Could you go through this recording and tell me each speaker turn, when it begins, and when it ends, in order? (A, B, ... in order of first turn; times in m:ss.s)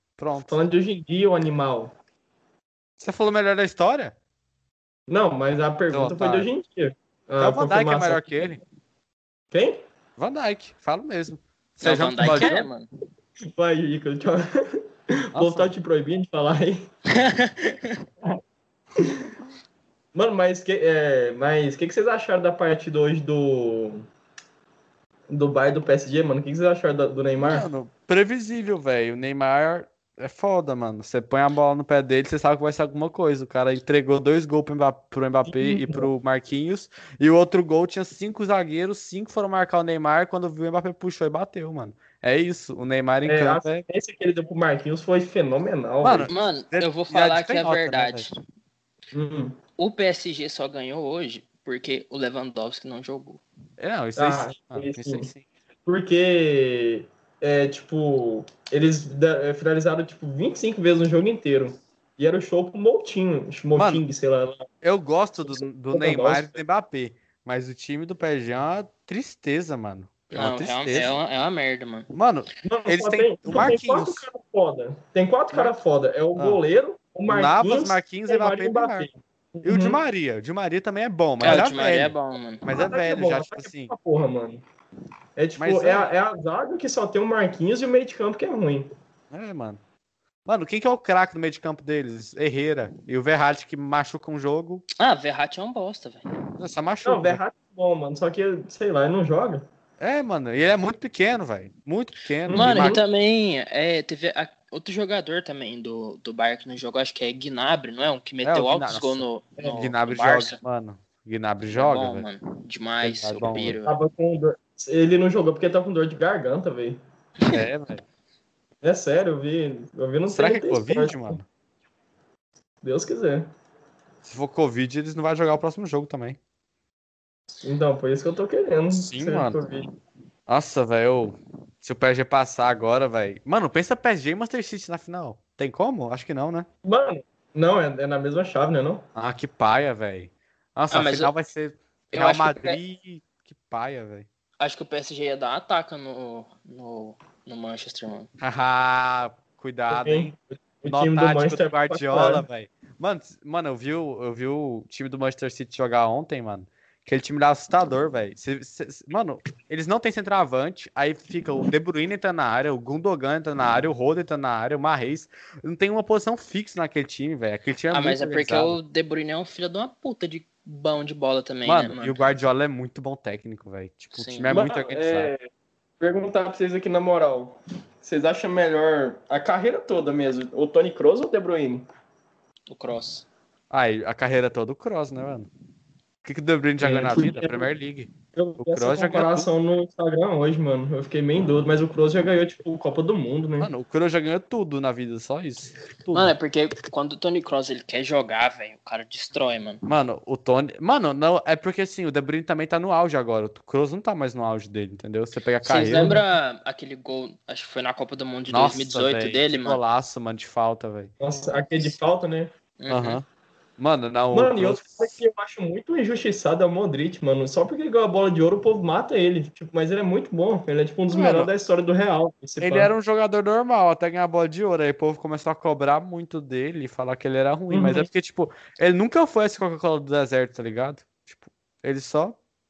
0:00.2-0:00.6 A
0:00.4-0:01.9 B
0:03.0-0:04.1 A
0:05.1-0:08.2 B
0:05.9-0:06.5 A
0:07.4-0:08.6 A
0:09.5-0:09.8 B
0:10.2-0:12.7 A
0:11.8-0:12.9 C
0:13.5-0:16.8 B
0:15.3-0:15.7 A
0:17.1-0:18.0 C
0:19.0-0:19.3 B
0:20.1-0:24.0 B
0:25.3-0:27.7 B
0:27.4-0:43.8 A
0:35.4-0:36.1 B
0:43.2-0:46.3 B
0:46.0-0:48.3 A
0:46.3-0:48.3 C
0:49.1-0:49.6 B
0:49.8-0:53.4 C
0:53.8-0:55.4 A
0:54.2-0:55.3 B
0:55.8-1:04.7 B
1:03.8-1:04.0 A
1:04.8-1:11.2 A
1:05.4-1:06.6 B
1:10.3-1:12.1 C
1:12.1-1:14.2 A
1:12.6-1:20.0 B
1:16.4-1:16.6 A
1:17.3-1:19.1 A
1:19.6-1:23.9 A
1:21.4-1:22.6 C
1:22.7-1:24.6 B
1:25.4-1:28.9 B
1:25.6-1:26.1 A
1:29.3-1:29.8 A
1:30.4-1:34.8 A
1:35.0-1:36.3 C
1:36.6-1:37.4 A
1:37.0-1:39.6 B
1:40.0-1:43.0 A
1:42.5-1:43.0 B
1:42.5-1:50.6 C
1:48.4-1:52.2 A
1:51.7-1:53.9 C
1:53.0-1:53.8 A
1:53.8-1:57.0 B
1:57.5-1:58.0 A
1:58.8-2:01.4 B
2:00.3-2:01.4 A
2:02.8-2:03.5 B
2:04.2-2:06.4 A
2:07.6-2:09.9 B
2:08.9-2:09.6 A
2:10.5-2:16.7 A
2:16.8-2:19.0 B
2:19.1-2:24.3 A
2:20.9-2:21.3 C
2:22.1-2:22.8 C
2:24.6-2:28.3 C
2:28.4-2:30.3 A
2:29.9-2:32.4 B
2:30.9-2:48.8 A
2:47.9-2:52.2 C
2:51.6-2:55.3 A
2:54.1-2:54.6 C
2:54.5-2:55.5 B
2:56.0-3:01.9 B
3:02.7-3:03.2 C
3:03.7-3:05.5 A
3:06.2-3:09.5 A
3:06.8-3:07.7 B
3:08.3-3:13.7 B
3:13.6-3:16.3 A
3:16.1-3:19.8 C
3:19.8-3:26.2 A
3:25.6-3:29.8 C
3:28.5-3:31.1 A
3:31.2-3:32.5 B
3:32.8-3:33.2 C
3:32.9-3:33.2 A
3:33.8-3:35.1 A
3:34.3-3:42.9 B
3:41.1-3:41.5 A
3:42.6-3:52.4 A
3:47.7-3:48.1 B